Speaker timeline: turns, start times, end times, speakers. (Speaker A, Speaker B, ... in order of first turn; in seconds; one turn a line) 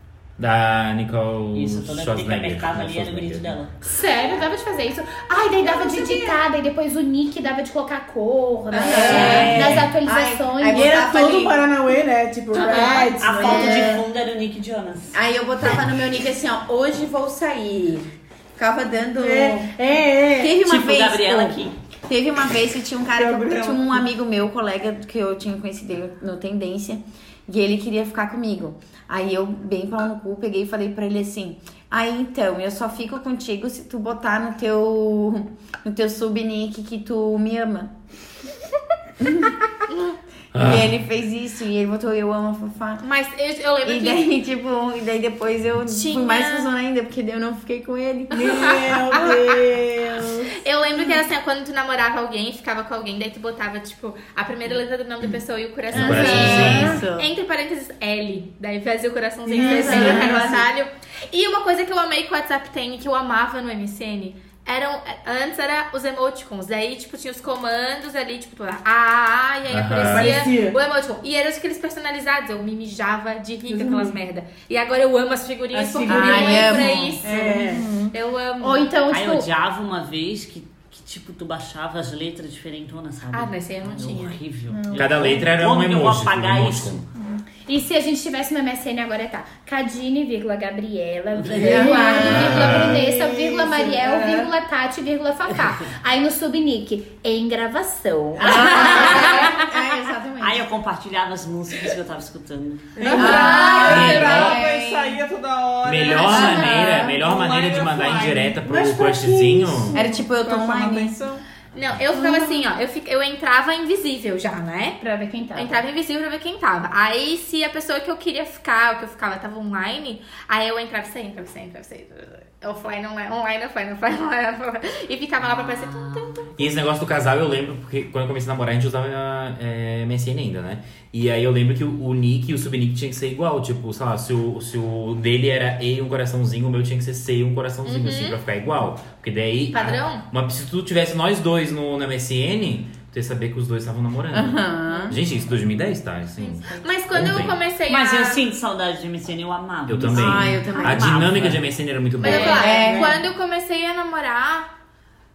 Speaker A: 0.4-3.6
Speaker B: 1.5-3.7
Speaker C: 3.8-10.9
Speaker D: 5.7-6.3
Speaker E: 8.7-11.7
Speaker F: 8.9-9.6
Speaker B: 8.9-9.8
Speaker F: 10.7-14.0
Speaker B: 12.5-15.2
Speaker E: 12.5-14.1
Speaker E: 15.1-19.7
Speaker F: 19.2-20.6
Speaker E: 20.4-37.9
Speaker B: 20.6-21.7
Speaker D: 23.1-24.1
Speaker E: 39.2-39.6
Speaker A: 40.5-40.9
Speaker E: 40.5-43.0
Speaker G: 43.0-44.3
Speaker E: 43.8-48.6
Speaker G: 45.9-46.7
Speaker F: 48.3-50.5
Speaker G: 48.3-49.6
Speaker G: 50.6-77.6
Speaker A: 55.9-57.1
Speaker C: 55.9-57.0
Speaker E: 56.0-57.3
Speaker F: 59.5-60.6
Speaker E: 59.6-60.6
Speaker C: 59.8-60.2
Speaker A: 69.7-70.4
Speaker F: 70.0-70.8
Speaker F: 73.7-74.2
Speaker F: 75.7-77.9
Speaker E: 76.0-77.2
Speaker C: 76.7-79.5
Speaker G: 78.1-78.9
Speaker B: 79.1-87.0
Speaker G: 83.3-84.4
Speaker C: 84.7-85.4
Speaker A: 84.9-87.0
Speaker C: 87.2-99.8
Speaker B: 91.4-92.1
Speaker E: 91.6-92.7
Speaker F: 92.0-94.5
Speaker A: 92.2-93.0
Speaker B: 98.4-99.5
Speaker E: 98.4-100.6
Speaker B: 100.4-103.2
Speaker F: 103.0-104.1
Speaker D: 103.0-108.6
Speaker C: 103.1-104.1
Speaker E: 103.1-105.2
Speaker G: 103.2-104.0
Speaker A: 103.9-104.6
Speaker A: 105.8-110.0
Speaker C: 106.1-107.0
Speaker E: 106.3-107.1
Speaker F: 108.7-110.0
Speaker E: 109.9-111.2
Speaker D: 110.0-111.4
Speaker G: 111.7-115.0
Speaker C: 112.1-112.6
Speaker C: 115.0-115.8
Speaker G: 115.5-126.5
Speaker B: 125.4-126.5
Speaker A: 126.6-147.6
Speaker G: 137.8-138.4
Speaker G: 139.7-140.2
Speaker E: 144.3-145.2
Speaker G: 146.4-148.4
Speaker B: 147.9-151.8
Speaker A: 149.9-152.7
Speaker E: 150.1-151.5
Speaker G: 152.2-154.7
Speaker F: 152.2-153.3
Speaker E: 152.3-153.2